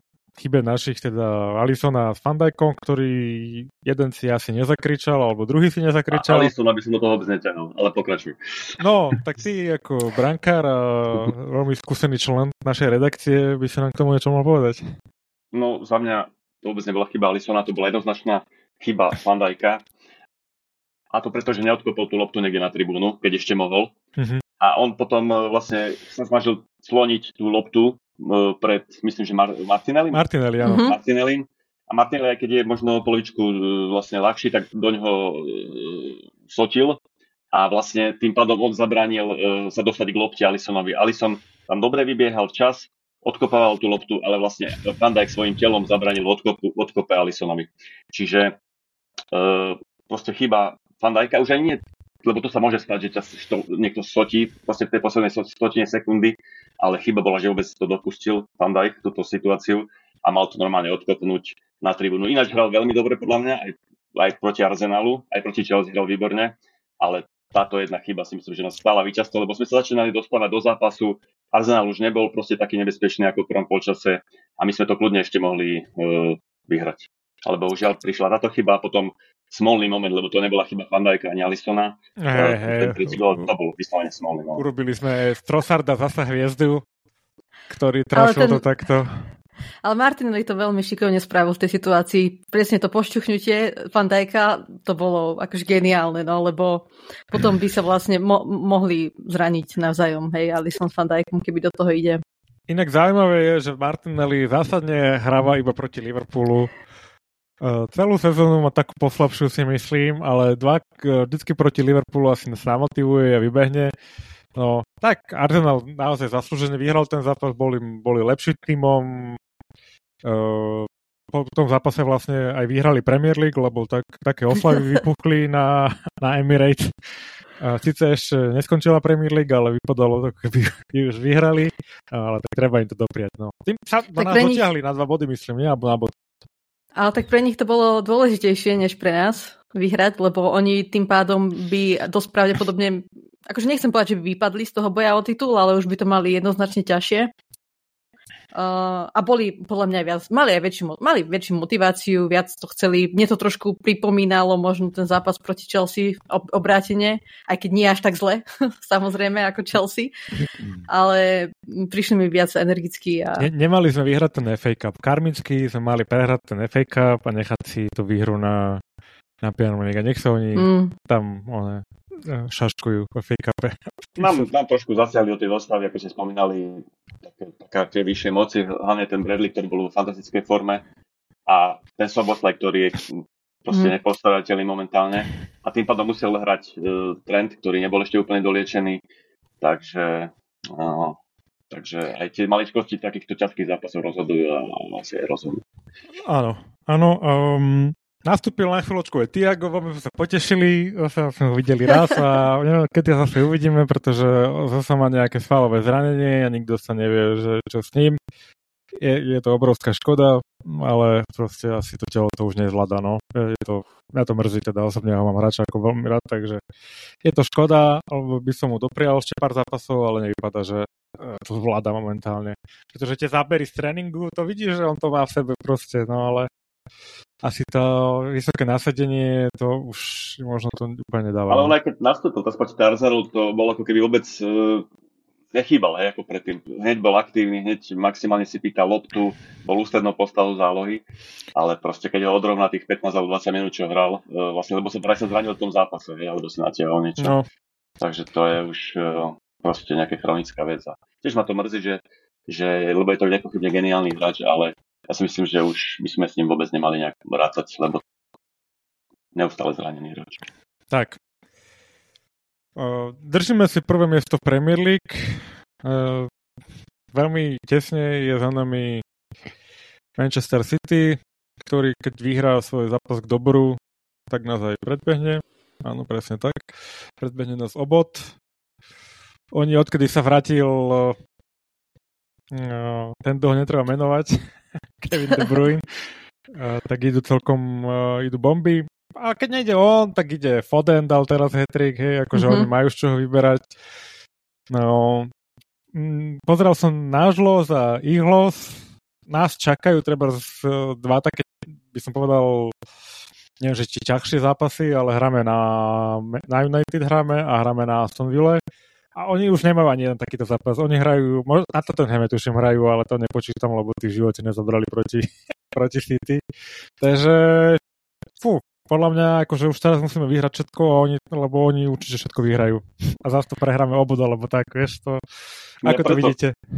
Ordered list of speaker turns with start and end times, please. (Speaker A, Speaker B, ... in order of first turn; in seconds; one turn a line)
Speaker A: 0.4-6.5
Speaker B: 6.1-8.8
Speaker A: 8.8-14.8
Speaker B: 15.5-19.8
Speaker B: 21.1-23.9
Speaker A: 24.2-24.4
Speaker B: 24.6-30.2
Speaker A: 30.1-30.8
Speaker C: 30.6-30.9
Speaker B: 30.8-37.0
Speaker B: 37.5-48.6
Speaker B: 49.3-84.6
Speaker A: 82.2-83.5
Speaker A: 84.6-86.8
Speaker A: 87.7-89.3
Speaker C: 88.1-88.6
Speaker C: 89.8-102.2
Speaker A: 102.7-106.7
Speaker A: 107.6-113.9
Speaker A: 114.6-119.4
Speaker A: 120.2-126.9
Speaker A: 127.6-136.1
Speaker C: 134.2-134.6
Speaker C: 137.0-147.3
Speaker C: 148.5-160.1
Speaker C: 160.9-163.5
Speaker A: 163.4-168.8
Speaker A: 169.4-174.5
Speaker C: 170.6-170.9
Speaker B: 174.2-180.8
Speaker B: 181.5-189.0
Speaker B: 189.6-191.2
Speaker B: 191.7-195.6
Speaker A: 196.2-208.2
Speaker A: 209.0-216.6
Speaker A: 217.2-226.5
Speaker A: 227.4-231.8
Speaker B: 231.5-234.9
Speaker B: 235.5-241.0
Speaker B: 241.6-247.3
Speaker A: 247.2-247.5
Speaker B: 248.0-258.0
Speaker B: 259.4-260.4
Speaker A: 260.9-261.2
Speaker A: 262.8-266.3
Speaker A: 267.1-269.0
Speaker A: 270.2-278.3
Speaker A: 279.5-281.2
Speaker A: 282.5-284.4
Speaker A: 285.0-285.8
Speaker A: 286.5-293.7
Speaker C: 292.3-292.7
Speaker A: 294.7-295.3
Speaker A: 295.9-302.8
Speaker A: 303.6-308.6
Speaker A: 309.2-316.4
Speaker A: 317.0-317.8
Speaker A: 318.4-325.2
Speaker B: 325.8-326.3
Speaker A: 325.8-326.6